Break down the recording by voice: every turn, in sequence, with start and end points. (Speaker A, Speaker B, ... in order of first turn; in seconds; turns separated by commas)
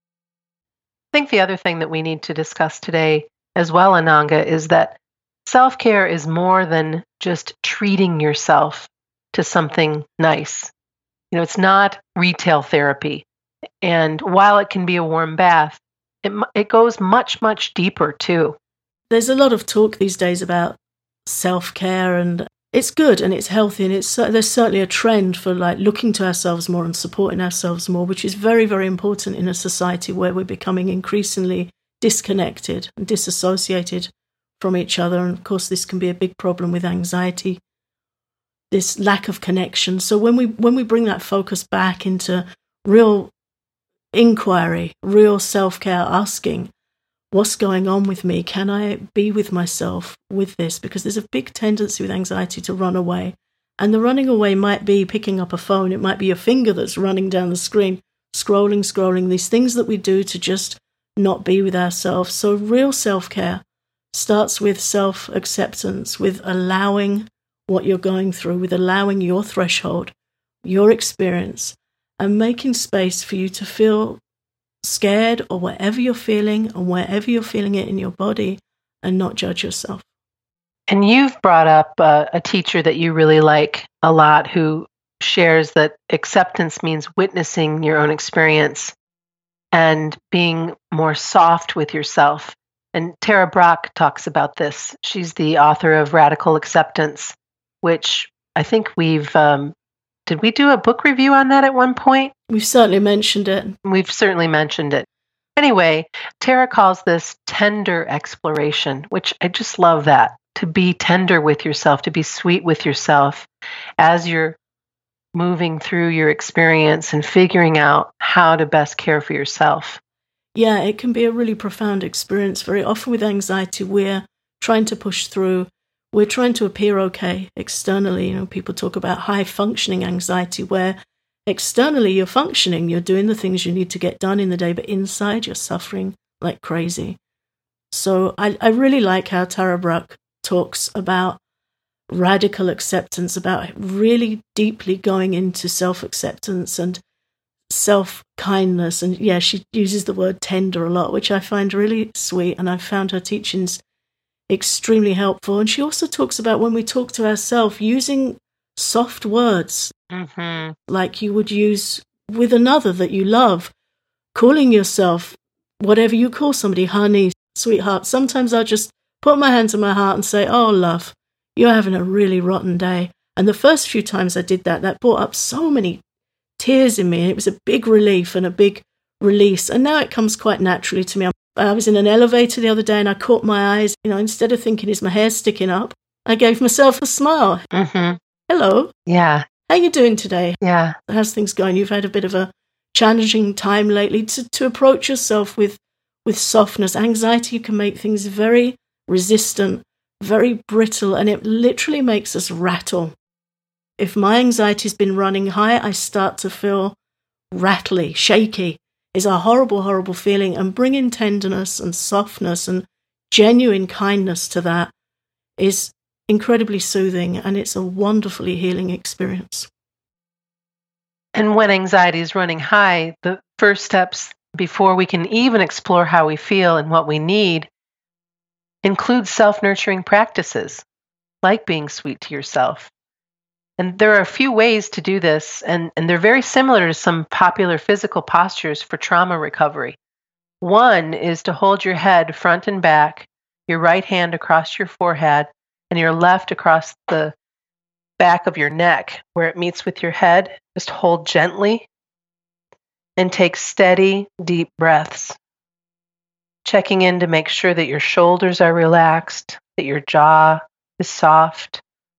Speaker A: 1.1-10.7, Speaker A: 11.3-13.3, Speaker A: 13.8-18.6, Speaker B: 19.1-37.6, Speaker B: 38.7-43.3, Speaker B: 44.1-46.7, Speaker B: 47.3-63.6, Speaker B: 64.1-70.1, Speaker B: 70.7-74.2, Speaker B: 74.8-80.0, Speaker A: 80.9-89.0, Speaker A: 89.7-99.8, Speaker A: 100.3-102.3, Speaker B: 102.5-103.8, Speaker A: 103.8-114.6, Speaker A: 115.3-120.0, Speaker B: 120.5-137.2, Speaker B: 137.9-141.4, Speaker B: 142.1-147.0, Speaker B: 147.7-153.8, Speaker B: 154.5-159.9, Speaker A: 160.1-160.8, Speaker B: 160.9-163.7, Speaker B: 164.3-176.0, Speaker B: 176.6-187.7, Speaker A: 187.7-188.2, Speaker B: 188.5-188.9, Speaker A: 189.1-189.5, Speaker B: 189.7-203.1, Speaker A: 190.6-191.0, Speaker B: 204.0-207.0, Speaker B: 207.5-214.9, Speaker B: 215.6-219.7, Speaker A: 221.3-227.7, Speaker A: 228.8-230.8, Speaker A: 231.4-232.9, Speaker A: 233.8-240.0, Speaker A: 240.6-247.4, Speaker A: 248.2-251.9, Speaker A: 253.2-255.4, Speaker A: 256.6-261.8